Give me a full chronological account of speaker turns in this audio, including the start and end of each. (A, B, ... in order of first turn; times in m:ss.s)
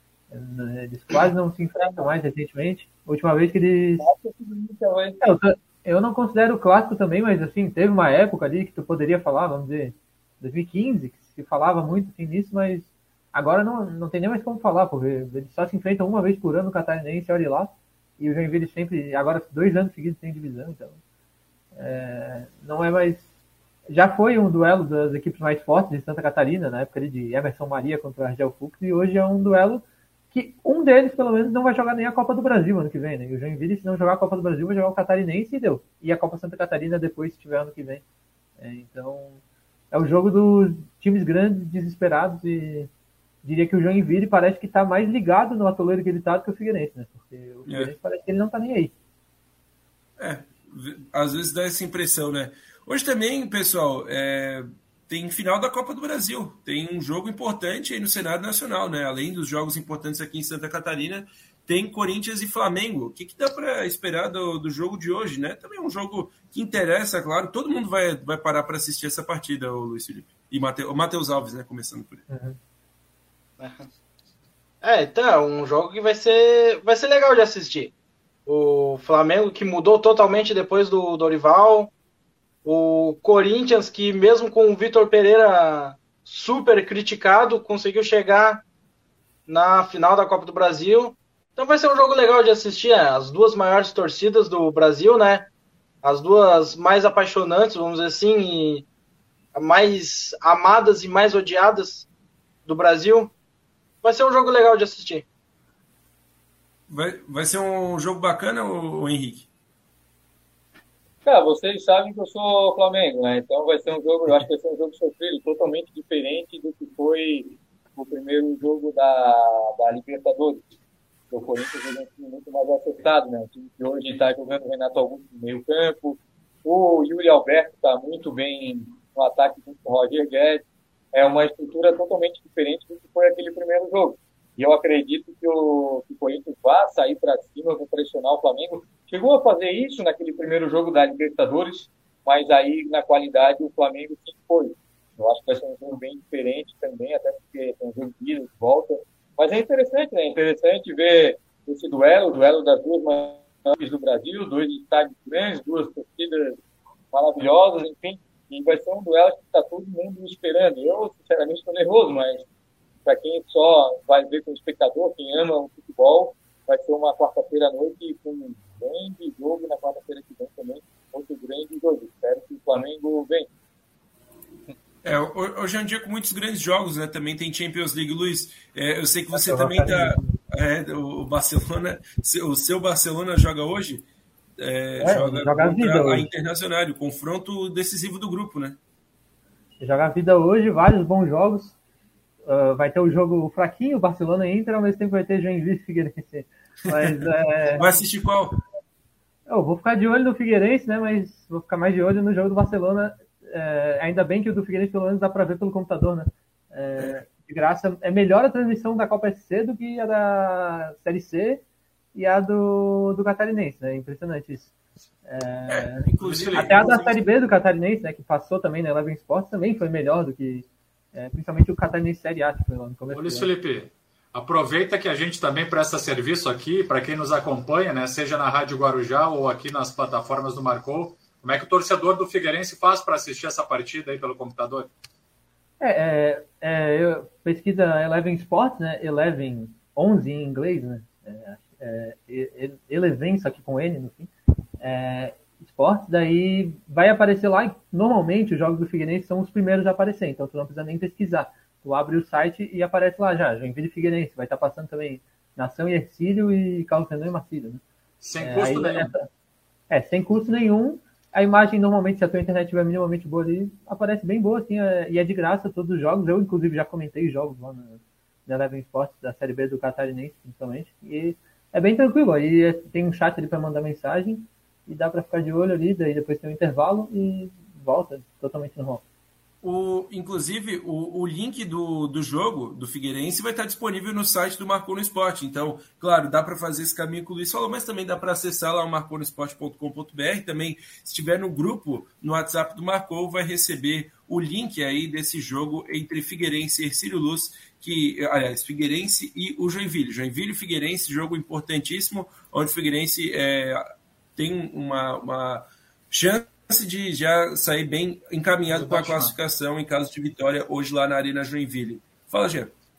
0:00.3-0:04.1 A
0:04.0-0:05.2 B
0:05.2-0:21.0 A
0:21.7-0:23.2 A
0:23.9-0:38.0 A
0:38.6-0:39.4 A
0:39.9-0:42.9 A
0:43.4-0:48.9 A
0:47.6-0:47.9 C
0:50.2-1:12.2 C
1:12.3-1:12.6 A
1:13.6-1:13.9 D
1:14.8-1:17.9 D
1:18.4-1:21.9 D
1:22.6-1:28.6 D
1:29.5-1:35.5 D
1:36.0-1:38.9 D
1:39.5-1:42.1 D
1:42.6-1:43.3 D
1:44.0-1:45.2 D
1:46.9-1:49.5 C
1:51.2-2:00.7 B
2:01.3-2:36.6 B
2:37.1-2:42.4 B
2:43.0-2:53.5 B
2:55.0-3:04.0 C
2:59.3-3:00.4 A
3:04.6-3:08.8 C
3:05.0-3:06.3 A
3:09.8-3:11.8 A
3:12.4-3:17.9 A
3:16.9-3:18.6 C
3:19.5-3:31.6 A
3:27.0-3:27.2 C
3:32.1-3:34.7 A
3:35.2-3:43.5 A
3:35.7-3:37.2 C
3:36.2-3:36.9 E
3:43.1-3:54.9 E
3:55.8-4:17.8 A
4:18.2-4:19.1 E
4:18.4-4:19.2 A
4:19.9-4:39.0 A
4:39.6-5:12.7 C
5:08.7-5:09.3 E